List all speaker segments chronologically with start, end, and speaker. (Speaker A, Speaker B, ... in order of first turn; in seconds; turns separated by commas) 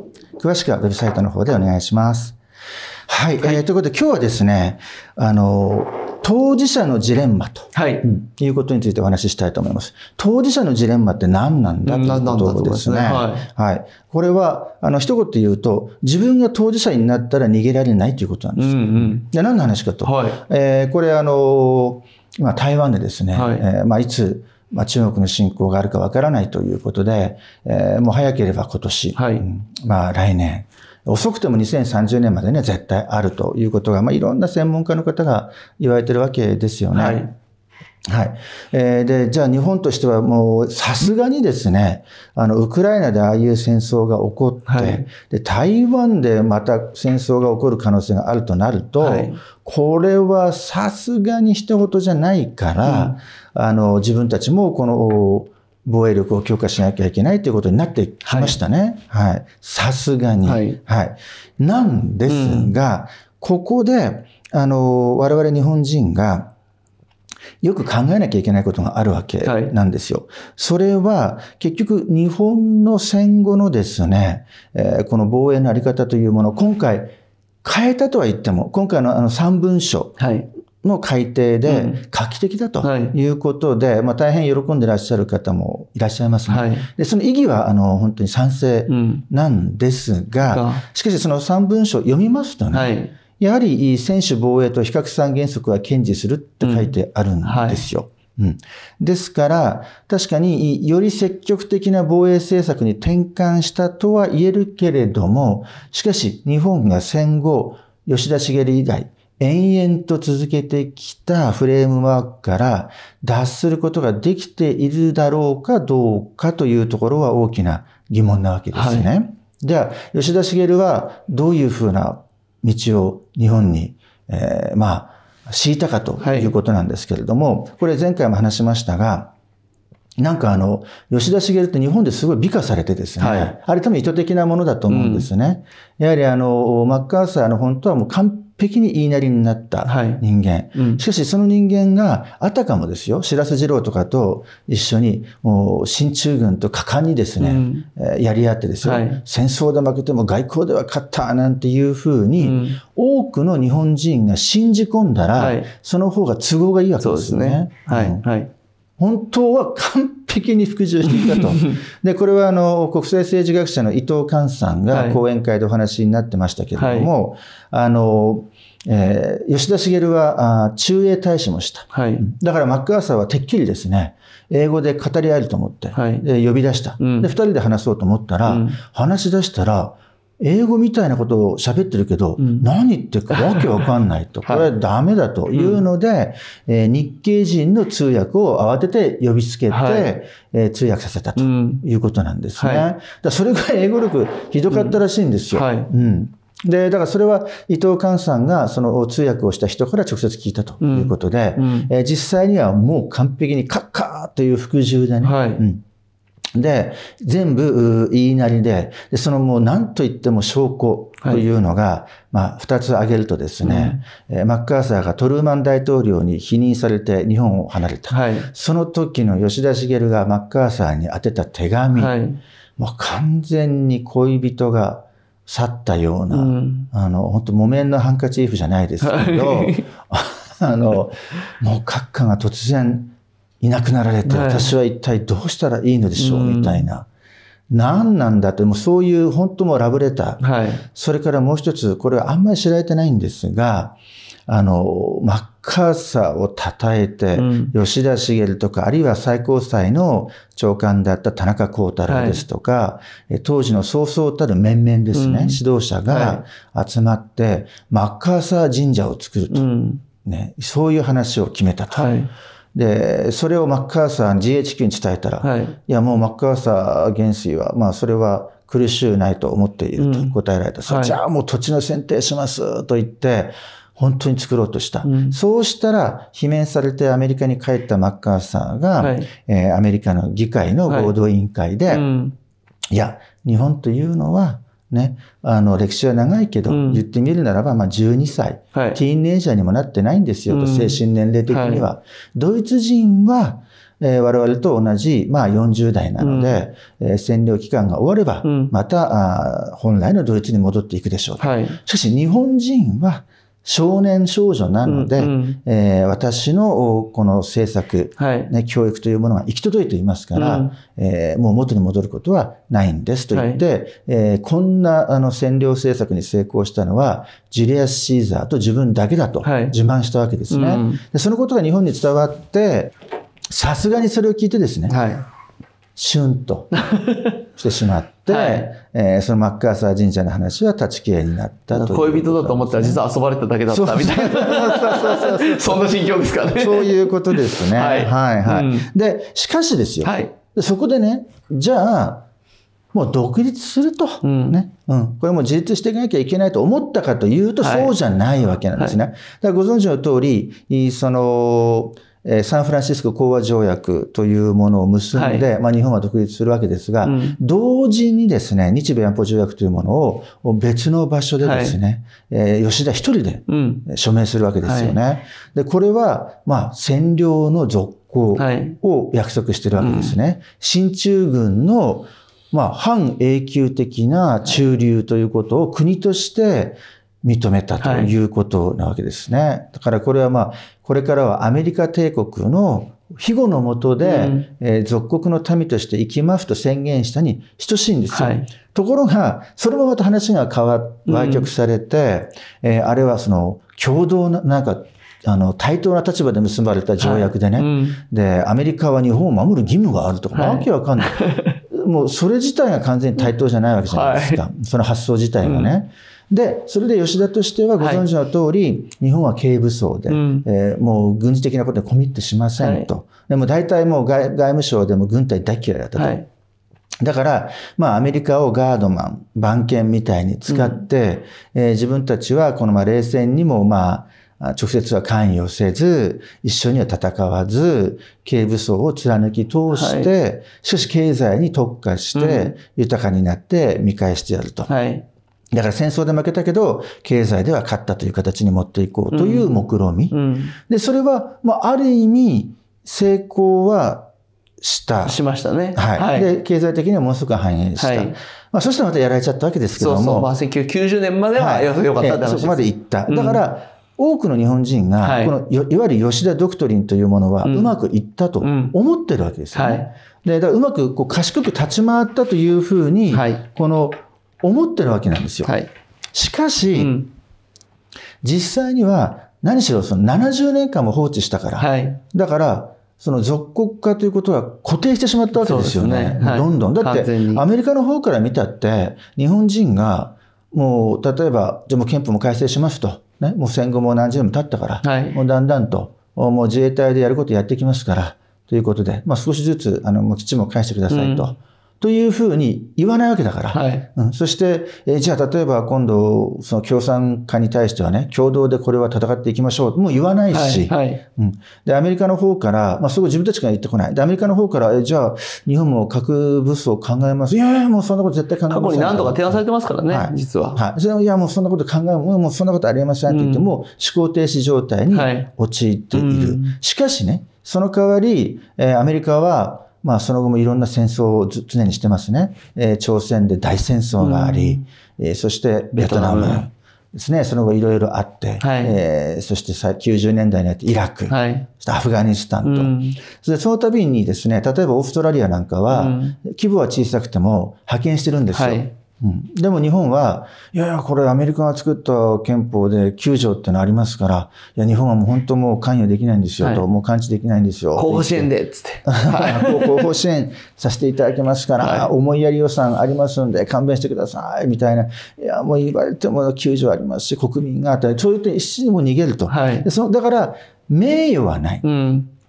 Speaker A: 0.4-2.4, Speaker A: 3.1-37.3, Speaker B: 7.7-8.0, Speaker B: 11.8-13.4, Speaker B: 18.6-19.2, Speaker B: 20.0-20.4, Speaker B: 23.3-23.6, Speaker B: 29.1-29.4, Speaker B: 36.9-37.3, Speaker A: 38.1-66.5, Speaker B: 44.7-45.0, Speaker B: 49.0-49.4, Speaker B: 52.8-53.1, Speaker B: 58.2-58.6, Speaker B: 60.4-60.8, Speaker B: 62.3-62.7, Speaker A: 67.6-77.1, Speaker B: 69.4-69.7, Speaker A: 77.6-80.2, Speaker B: 80.2-80.5, Speaker A: 80.8-129.3, Speaker B: 81.7-82.0, Speaker B: 82.8-83.1, Speaker B: 86.5-86.9, Speaker B: 88.9-89.2, Speaker B: 90.4-90.8, Speaker B: 92.7-93.1, Speaker B: 96.6-96.9, Speaker B: 97.4-97.8, Speaker B: 118.7-119.1, Speaker B: 126.2-126.5, Speaker A: 130.2-158.2, Speaker B: 133.2-133.5, Speaker B: 134.9-135.3, Speaker B: 139.8-140.2, Speaker B: 140.8-141.0, Speaker B: 147.4-147.8, Speaker B: 148.8-149.2, Speaker B: 152.4-152.8, Speaker B: 155.3-155.7, Speaker B: 157.0-158.5, Speaker A: 159.0-205.8, Speaker B: 161.2-161.6, Speaker B: 164.9-165.2, Speaker B: 166.8-167.1, Speaker B: 171.9-172.2, Speaker B: 175.9-176.2, Speaker B: 177.0-177.3, Speaker B: 178.4-178.8, Speaker B: 182.4-182.6, Speaker B: 183.3-183.7, Speaker B: 185.5-185.8, Speaker B: 189.7-190.1, Speaker B: 191.4-191.8, Speaker B: 192.6-192.9, Speaker B: 194.7-195.0, Speaker B: 195.5-195.9, Speaker B: 200.8-201.9, Speaker B: 205.2-205.6, Speaker A: 206.5-222.1, Speaker B: 213.6-214.0, Speaker B: 218.1-218.5, Speaker B: 221.9-222.4, Speaker A: 222.8-237.1, Speaker B: 226.3-226.9, Speaker B: 229.0-229.8, Speaker B: 234.2-234.7, Speaker B: 236.2-236.9, Speaker A: 237.7-259.7, Speaker B: 240.4-240.8, Speaker B: 247.3-247.7, Speaker B: 252.1-252.4, Speaker B: 255.1-256.4, Speaker B: 259.5-260.0, Speaker A: 260.2-262.1, Speaker B: 261.9-262.3, Speaker A: 262.7-282.1, Speaker B: 265.4-265.7, Speaker B: 270.0-270.3, Speaker B: 270.9-271.2, Speaker B: 275.0-275.4, Speaker B: 279.0-279.3, Speaker B: 280.9-281.1, Speaker B: 281.9-282.3, Speaker A: 282.9-322.9, Speaker B: 286.7-287.0, Speaker B: 288.7-289.0, Speaker B: 290.5-291.9, Speaker B: 296.2-296.6, Speaker B: 298.4-298.7, Speaker B: 301.4-301.8, Speaker B: 304.9-305.6, Speaker B: 308.2-308.5, Speaker B: 310.3-310.7, Speaker B: 313.3-313.6, Speaker B: 319.4-319.8, Speaker B: 320.5-321.0, Speaker A: 323.5-325.0, Speaker B: 324.9-325.2, Speaker A: 325.9-326.7, Speaker B: 326.8-327.3, Speaker A: 327.5-333.0, Speaker B: 328.3-328.7, Speaker B: 331.7-338.9, Speaker A: 333.7-342.3, Speaker B: 340.0-340.3, Speaker A: 342.9-416.2, Speaker B: 344.2-344.6, Speaker B: 347.6-347.9, Speaker B: 355.1-355.4, Speaker B: 357.0-357.4, Speaker B: 361.4-361.8, Speaker B: 363.5-363.8, Speaker B: 364.6-365.0, Speaker B: 368.4-368.8, Speaker B: 369.8-370.1, Speaker B: 377.8-378.1, Speaker B: 384.0-384.5, Speaker B: 388.1-388.5, Speaker B: 391.1-391.5, Speaker B: 397.0-398.0, Speaker B: 400.3-401.5, Speaker B: 403.9-404.4, Speaker B: 405.4-405.7, Speaker B: 407.8-408.1, Speaker B: 410.1-410.4, Speaker B: 412.6-412.9, Speaker B: 415.9-416.2, Speaker A: 417.0-434.7, Speaker B: 420.5-420.8, Speaker B: 429.7-430.1, Speaker B: 432.1-432.6, Speaker B: 434.7-435.0, Speaker A: 435.5-444.1, Speaker B: 439.1-439.5, Speaker B: 440.1-440.5, Speaker A: 444.6-445.2, Speaker B: 445.0-446.3, Speaker A: 445.7-450.3, Speaker B: 447.8-448.1, Speaker B: 449.8-453.4, Speaker A: 451.3-465.6, Speaker B: 455.0-455.4, Speaker B: 457.4-457.7, Speaker B: 458.4-458.7, Speaker B: 459.5-459.9, Speaker B: 463.1-463.4, Speaker B: 465.4-465.7, Speaker A: 466.1-467.0, Speaker B: 466.7-467.1, Speaker A: 468.2-548.3, Speaker B: 471.6-472.0, Speaker B: 475.3-477.4, Speaker B: 484.8-485.2, Speaker B: 490.9-491.3, Speaker B: 493.5-493.9, Speaker B: 500.3-501.0, Speaker B: 508.5-510.6, Speaker B: 513.1-513.5, Speaker B: 514.9-515.3, Speaker B: 515.9-516.5, Speaker B: 524.0-524.6, Speaker B: 525.7-526.4, Speaker B: 528.4-528.8, Speaker B: 531.1-531.5, Speaker B: 532.4-533.0, Speaker B: 535.7-536.2, Speaker B: 538.3-538.7, Speaker B: 547.7-549.8, Speaker A: 548.8-561.6, Speaker B: 551.6-551.9, Speaker B: 559.3-559.7, Speaker B: 561.6-562.1